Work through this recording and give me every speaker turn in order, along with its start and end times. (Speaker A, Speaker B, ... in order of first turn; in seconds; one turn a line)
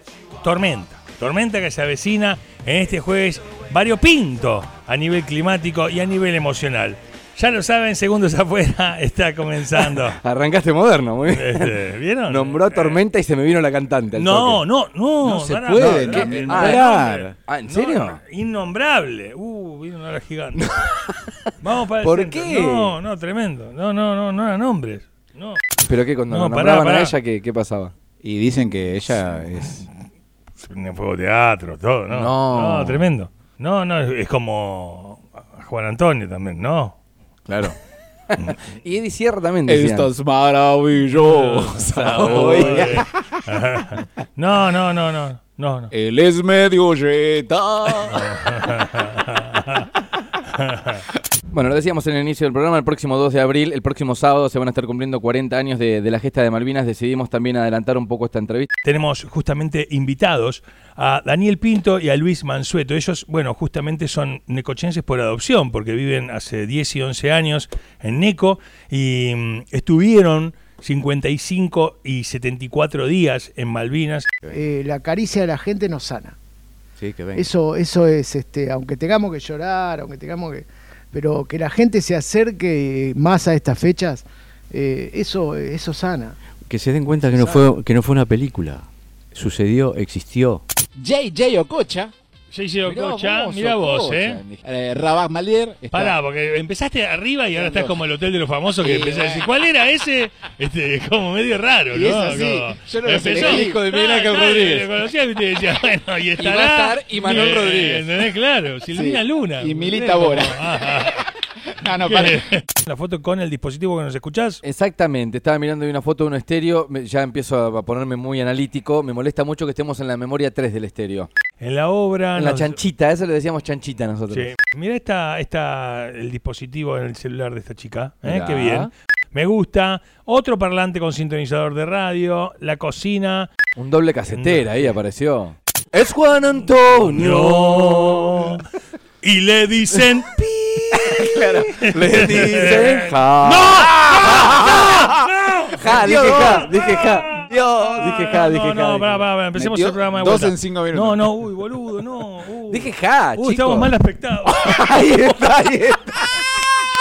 Speaker A: 0.4-10.2
Speaker B: 9.8-14.6
Speaker A: 11.3-13.0
Speaker A: 14.1-20.9
Speaker C: 15.2-17.4
Speaker B: 16.0-16.9
Speaker B: 17.4-18.2
Speaker A: 21.6-25.6
Speaker B: 22.0-23.0
Speaker B: 25.8-27.9
Speaker A: 26.3-27.2
Speaker C: 28.2-29.9
Speaker A: 30.6-37.0
Speaker B: 32.1-33.1
Speaker C: 37.5-37.8
Speaker B: 38.4-40.1
Speaker C: 39.7-43.1
Speaker A: 41.2-45.9
Speaker B: 42.0-42.8
Speaker C: 45.9-48.3
Speaker A: 48.0-49.9
Speaker A: 50.5-51.0
Speaker B: 51.5-58.7
Speaker A: 58.8-74.3
Speaker D: 74.5-76.4
Speaker E: 77.0-77.5
Speaker D: 77.3-86.4
Speaker E: 86.7-90.6
Speaker C: 87.4-87.7
Speaker C: 91.0-92.1
Speaker A: 92.5-94.5
Speaker C: 92.8-96.2
Speaker B: 94.1-94.6
Speaker A: 95.9-111.2
Speaker C: 97.5-98.0
Speaker C: 98.8-99.5
Speaker C: 101.9-104.0
Speaker B: 103.4-104.9
Speaker C: 106.4-108.2
Speaker C: 108.9-110.7
Speaker C: 111.8-112.4
Speaker A: 112.0-114.6
Speaker B: 114.6-121.3
Speaker A: 121.6-122.8
Speaker B: 122.3-124.5
Speaker A: 124.3-133.5
Speaker B: 128.2-128.9
Speaker B: 133.8-138.6
Speaker A: 134.3-135.0
Speaker A: 137.0-138.6
Speaker A: 139.2-155.2
Speaker C: 141.2-141.7
Speaker B: 141.5-145.1
Speaker E: 142.0-142.8
Speaker C: 143.7-145.2
Speaker C: 145.8-146.7
Speaker B: 145.8-149.2
Speaker C: 149.5-151.2
Speaker B: 152.7-153.9
Speaker C: 154.6-156.0